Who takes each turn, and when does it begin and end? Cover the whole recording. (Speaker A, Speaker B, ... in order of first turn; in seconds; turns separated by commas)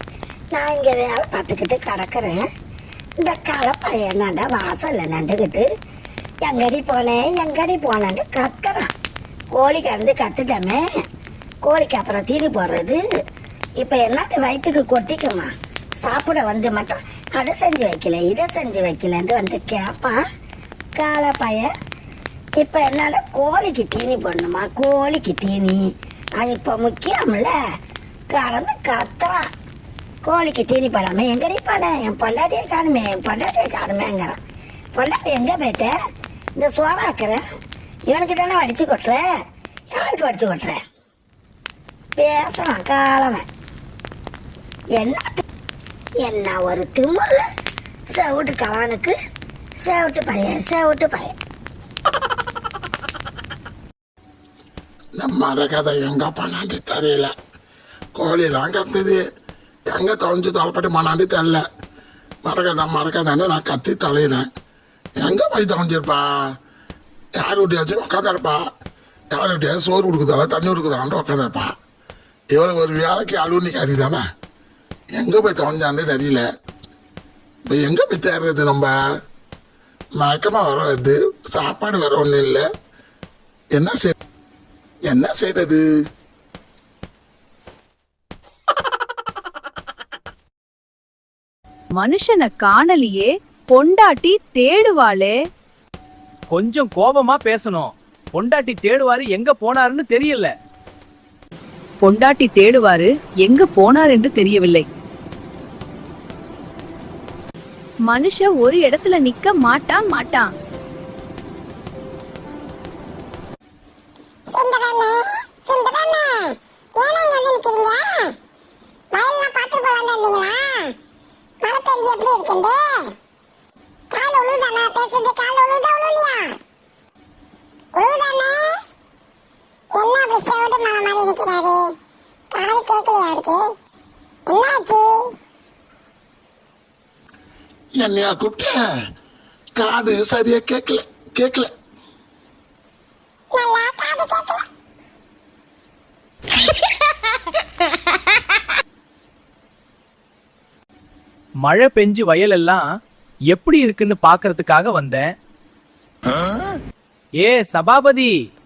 Speaker A: 0.5-2.4, Speaker A: 3.2-5.7, Speaker A: 6.4-8.9, Speaker A: 9.5-10.8, Speaker A: 11.6-13.0, Speaker A: 13.8-15.5, Speaker A: 16.0-20.2, Speaker A: 21.0-21.7, Speaker A: 22.6-27.5, Speaker A: 28.3-29.5, Speaker A: 30.2-34.4, Speaker A: 35.0-35.9, Speaker A: 36.6-37.4, Speaker A: 38.1-39.2, Speaker A: 39.9-40.8, Speaker A: 42.1-43.5, Speaker A: 45.0-45.4, Speaker A: 46.2-47.5, Speaker A: 48.1-49.1, Speaker A: 49.8-51.3, Speaker B: 55.2-57.3, Speaker B: 58.1-59.2, Speaker B: 59.9-61.6, Speaker B: 62.5-64.5, Speaker B: 65.2-66.2, Speaker B: 67.4-68.6, Speaker B: 69.3-71.7, Speaker B: 72.5-74.2, Speaker B: 75.2-76.5, Speaker B: 77.7-78.9, Speaker B: 80.2-82.7, Speaker B: 83.8-84.1, Speaker B: 85.1-85.8, Speaker C: 92.0-95.3, Speaker D: 96.5-100.5, Speaker C: 102.0-104.9, Speaker C: 108.1-110.5, Speaker E: 114.5-118.3, Speaker E: 119.1-120.9, Speaker E: 121.6-123.1, Speaker E: 124.1-126.5, Speaker E: 128.0-128.6, Speaker E: 129.9-131.9, Speaker E: 132.5-133.6, Speaker E: 134.5-135.2, Speaker B: 138.0-138.7, Speaker B: 139.8-141.7, Speaker E: 143.5-144.6, Speaker D: 151.7-152.8, Speaker D: 153.5-155.3, Speaker D: 157.4-158.3